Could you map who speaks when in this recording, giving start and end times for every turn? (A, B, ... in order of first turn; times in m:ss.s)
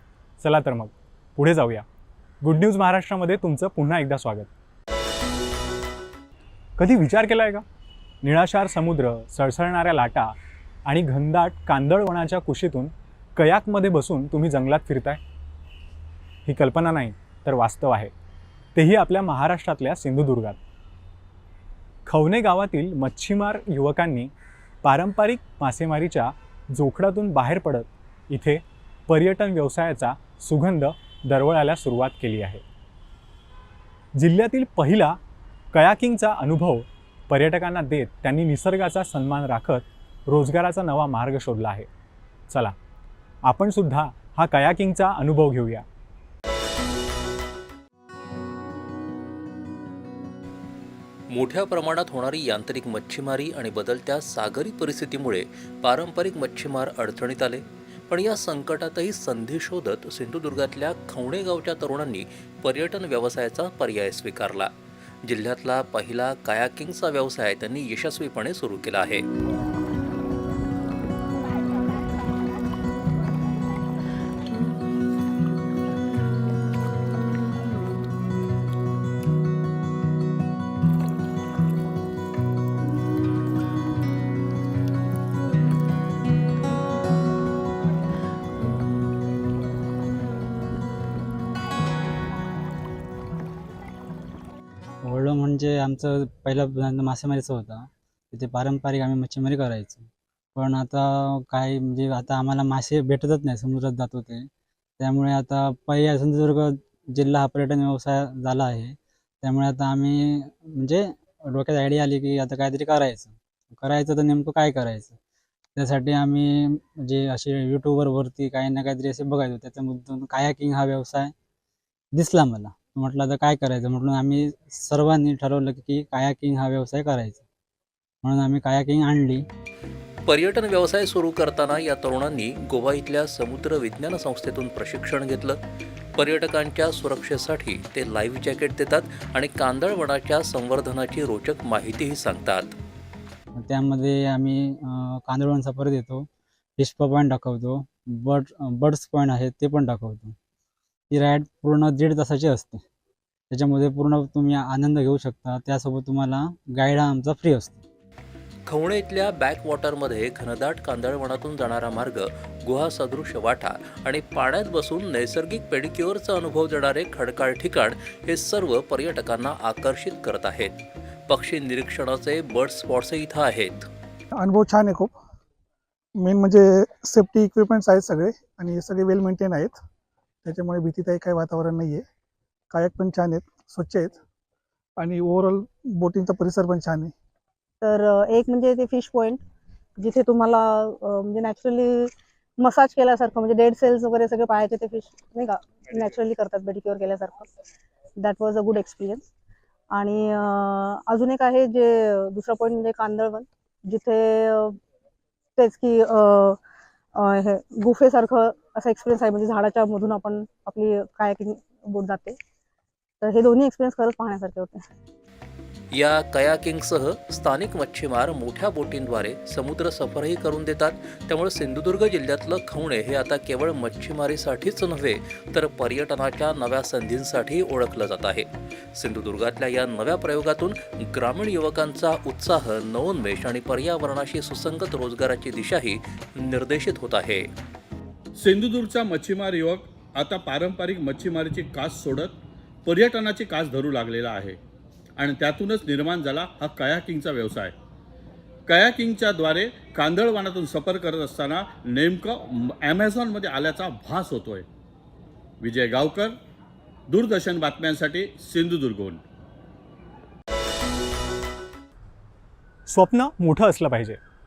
0:00.4-0:01.8 A
0:02.4-0:04.5 A
0:06.8-0:07.6 A
0:08.2-0:10.3 A
0:10.9-0:15.2 A
0:16.5-0:18.1 A
0:18.8-0:20.6 A
0:22.0-0:24.3 A
0:24.8-0:32.6 A
0:34.2-0:35.2 A
0:35.7-0:41.9 A
0:42.5-0:42.8 A
0:43.5-0:45.8 A
0:51.3-1:04.7 B
1:05.2-1:09.3 B
1:35.0-1:44.5 C
1:45.0-1:55.2 C
1:55.8-2:01.3 C
2:02.2-2:07.4 C
2:08.2-2:09.5 C
2:10.3-2:15.6 B
2:16.2-2:22.8 B
2:23.6-2:26.3 C
2:26.8-2:30.4 C
2:31.1-2:32.8 C
2:33.5-2:37.8 C
2:38.7-2:50.8 B
2:51.3-2:53.9 B
2:54.4-2:55.2 D
2:56.2-2:59.8 D
3:00.4-3:02.0 D
3:02.7-3:04.2 D
3:05.0-3:07.1 D
3:07.8-3:09.4 E
3:10.0-3:17.5 E
3:18.2-3:19.2 E
3:19.9-3:24.8 E
3:25.6-3:26.6 E
3:27.2-3:32.4 E
3:33.2-3:34.9 E
3:35.9-3:57.5 B
3:58.4-4:04.6 F
4:05.2-4:07.8 F
4:08.7-4:14.7 F
4:15.6-4:16.4 F
4:17.1-4:19.2 F
4:22.9-4:24.2 A